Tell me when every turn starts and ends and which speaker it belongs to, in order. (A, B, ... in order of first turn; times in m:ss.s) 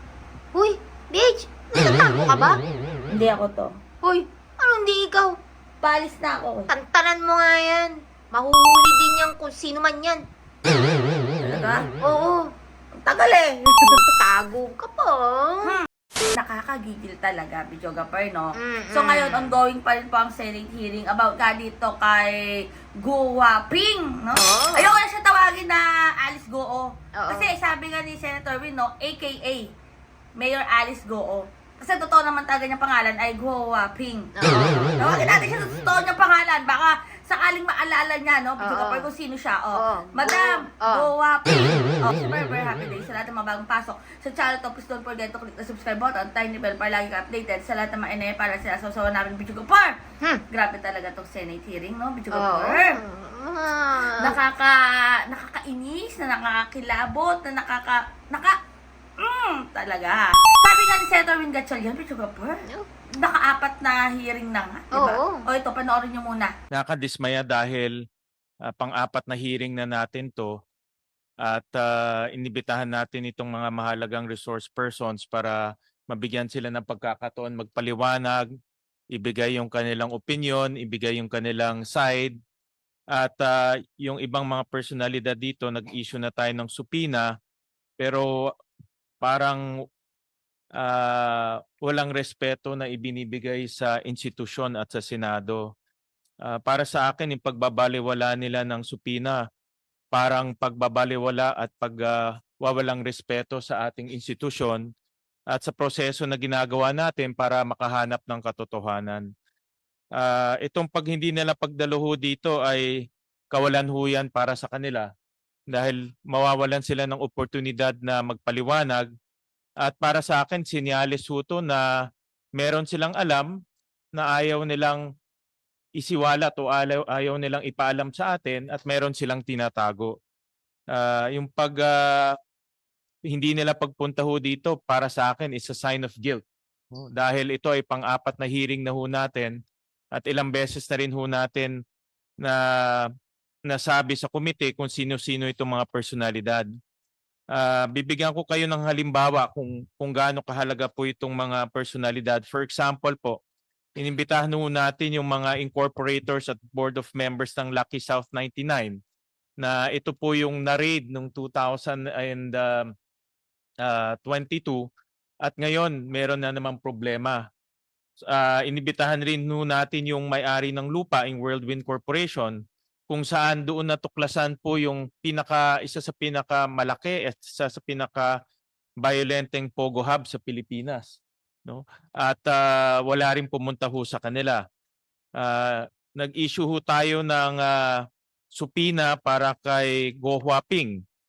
0:00.5-0:02.6 A
0:03.1-0:03.7 B
0:04.0-0:05.4 A
0:05.8-0:06.7 B
0:06.7-0:10.2 A
0:11.4-0:11.9 B
0:12.0-0:12.5 A
0:13.0-0:14.1 B
0:13.9-0:15.8 A
0:15.6-0:29.7 B
0:18.6-0:19.5 A
0:24.4-0:24.9 A
0:27.2-0:27.5 A
0:30.4-0:50.0 B
0:34.4-0:35.1 A
0:38.6-0:39.1 A
0:39.7-0:41.1 A
0:50.5-0:53.0 B
0:52.3-0:54.4 A
0:54.2-0:58.6 B
0:59.2-1:02.6 B
1:03.2-1:06.5 B
1:04.9-1:05.4 A
1:06.7-1:07.9 C
1:08.6-1:10.6 C
1:11.4-1:18.5 C
1:19.1-1:22.4 C
1:23.1-1:27.3 C
1:28.0-1:28.3 C
1:29.2-1:29.6 C
1:30.7-1:35.7 C
1:36.4-1:39.4 C
1:40.1-1:44.8 C
1:45.5-1:49.3 C
1:50.2-1:55.1 C
1:55.7-1:59.1 C
1:59.8-2:01.8 C
2:02.6-2:03.5 C
2:04.1-2:05.0 C
2:06.0-2:10.2 C
2:10.9-2:12.4 C
2:13.2-2:16.4 C
2:17.0-2:19.6 C
2:20.1-2:21.8 C
2:22.4-2:23.1 C
2:23.7-2:26.7 C
2:27.5-2:33.4 C
2:34.0-2:39.0 C
2:39.6-2:42.9 C
2:43.8-2:44.9 C
2:45.4-2:47.4 C
2:48.2-2:58.4 C
2:59.0-3:04.6 C
3:05.4-3:11.0 C